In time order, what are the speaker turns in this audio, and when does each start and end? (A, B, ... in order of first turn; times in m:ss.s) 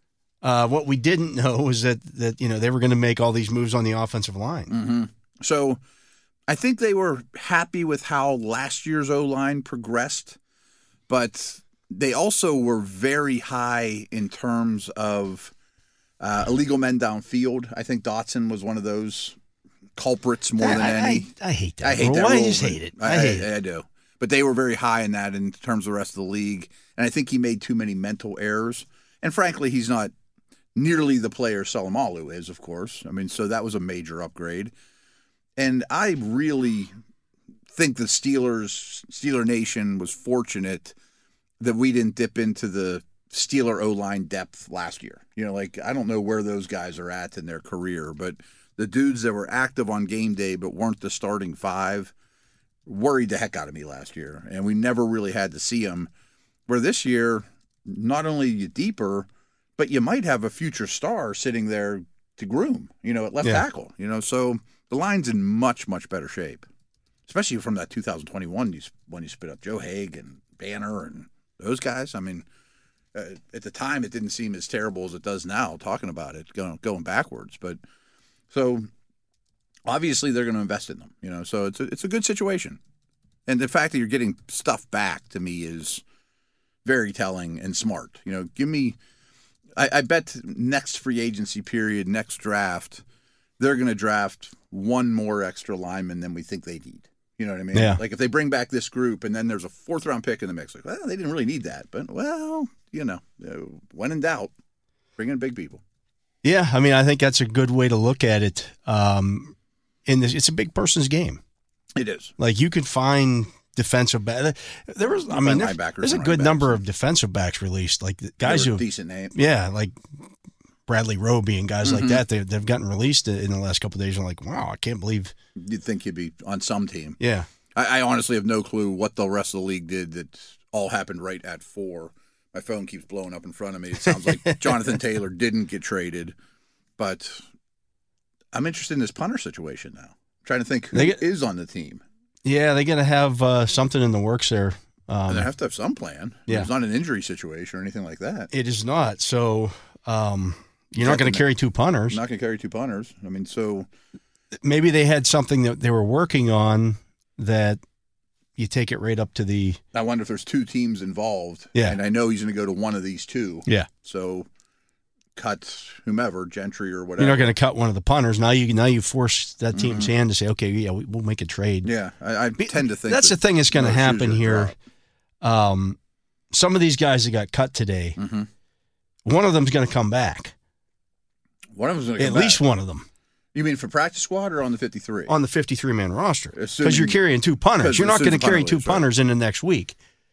0:00.4-0:04.7 A
0:04.7-0:05.8 B
0:06.5-0:10.4 B
0:11.1-0:15.5 B
0:16.2-0:19.4 B
0:20.0-0:21.3 B
0:20.6-0:23.5 A
0:21.8-0:30.1 B
0:30.7-0:34.7 B
0:35.6-0:36.9 B
0:37.7-0:40.9 B
0:41.6-0:52.1 B
0:52.8-0:56.1 B
0:56.7-1:06.6 B
1:07.3-1:12.4 B
1:13.1-1:17.8 B
1:18.5-1:18.9 B
1:19.8-1:22.8 B
1:23.5-1:26.0 B
1:26.8-1:29.0 B
1:29.8-1:33.0 B
1:33.6-1:44.5 B
1:37.7-1:38.0 A
1:45.2-1:45.8 B
1:46.4-1:49.5 A
1:50.0-1:51.4 A
1:52.0-1:52.3 B
1:52.4-1:58.8 A
1:55.3-1:56.8 B
1:58.4-1:59.3 B
1:59.3-2:00.0 A
2:00.9-2:05.3 A
2:01.8-2:02.2 B
2:05.6-2:07.2 B
2:07.2-2:07.5 A
2:07.8-2:16.3 B
2:14.0-2:14.9 A
2:17.0-2:17.4 B
2:18.5-2:22.0 B
2:20.9-2:21.2 A
2:22.4-2:25.5 A
2:25.3-2:28.5 B
2:28.5-2:32.2 A
2:31.0-2:31.4 B
2:32.1-2:33.9 B
2:34.6-2:37.8 A
2:38.6-2:39.8 A
2:39.9-2:44.4 B
2:45.4-2:47.5 B
2:47.2-2:51.9 A
2:49.7-2:50.1 B
2:51.8-2:54.7 B
2:52.6-2:54.7 A
2:55.4-2:56.0 A
2:56.5-2:58.2 A
2:58.2-2:58.5 B
2:59.2-3:00.5 A
3:01.7-3:02.6 B
3:02.2-3:03.0 A
3:03.5-3:05.3 B
3:05.3-3:10.0 A
3:06.5-3:07.2 B
3:07.8-3:09.0 B